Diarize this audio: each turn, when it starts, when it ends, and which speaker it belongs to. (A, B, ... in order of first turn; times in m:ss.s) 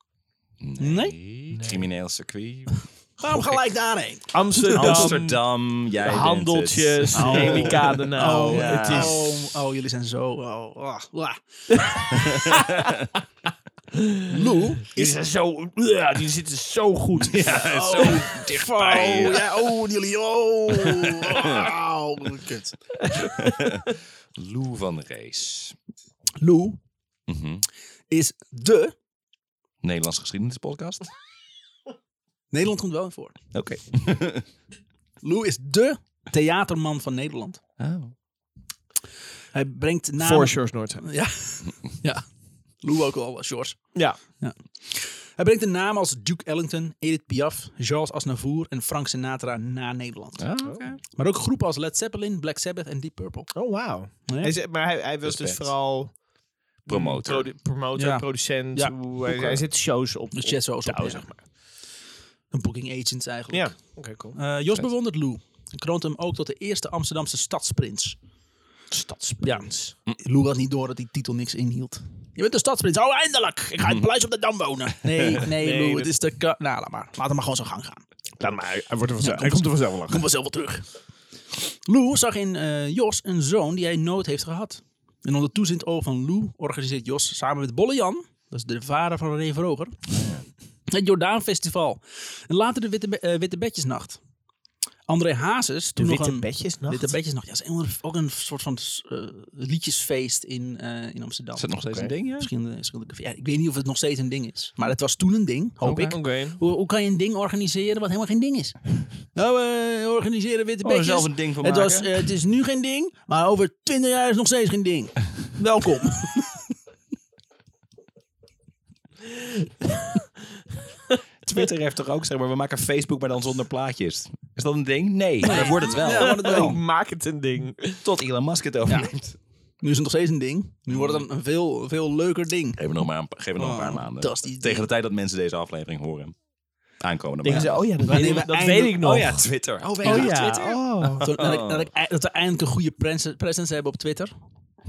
0:00.6-0:03.6 A
0:00.8-0:01.2 B
0:01.5-0:01.8 C
0:03.2-0:05.1 B
0:04.3-0:05.4 C
0:04.7-0:08.0 A
0:06.0-0:09.2 C
0:07.1-0:11.4 B
0:08.5-0:09.1 A
0:11.7-0:12.9 C
0:12.2-0:12.9 A
0:14.0-0:14.3 C
0:14.2-0:15.2 B
0:14.9-0:17.6 C
0:17.2-0:19.6 A
0:17.5-0:22.8 B
0:20.7-0:21.7 A
0:23.0-0:23.5 C
0:23.2-0:25.8 A
0:26.4-0:26.8 B
0:27.3-0:27.6 A
0:28.1-0:28.9 B
0:29.8-0:31.0 A
0:32.5-0:33.4 B
0:33.5-0:34.4 A
0:35.2-0:37.6 B
0:37.8-0:38.1 A
0:39.5-0:42.2 B
0:40.2-0:41.1 C
0:42.8-0:50.5 B
0:50.4-0:51.0 A
0:51.1-0:53.5 B
0:53.5-0:56.1 C
0:54.2-0:54.5 B
0:55.2-0:55.7 A
0:56.9-0:57.5 A
0:56.9-1:01.4 C
0:58.0-0:59.6 B
1:00.4-1:01.3 B
1:02.5-1:03.8 B
1:03.5-1:04.4 C
1:04.3-1:08.2 B
1:08.9-1:09.9 C
1:09.4-1:18.0 B
1:15.4-1:16.2 C
1:18.4-1:20.2 C
1:19.2-1:20.9 B
1:21.7-1:30.0 B
1:30.1-1:30.4 A
1:30.9-1:34.2 B
1:35.1-1:56.6 B
1:36.0-1:37.1 C
1:41.6-1:42.5 A
1:45.8-1:46.1 A
1:46.0-1:46.6 C
1:50.8-1:52.2 A
2:01.4-2:06.8 A
2:05.4-2:06.8 B
2:05.5-2:08.0 C
2:08.0-2:09.4 A
2:08.9-2:09.1 B
2:09.8-2:12.8 B
2:10.9-2:11.2 A
2:12.8-2:16.4 A
2:13.6-2:14.9 B
2:17.0-2:18.4 A
2:17.4-2:19.5 C
2:18.0-2:19.0 B
2:19.0-2:21.9 A
2:20.0-2:21.3 C
2:20.0-2:20.6 B
2:21.2-2:24.3 B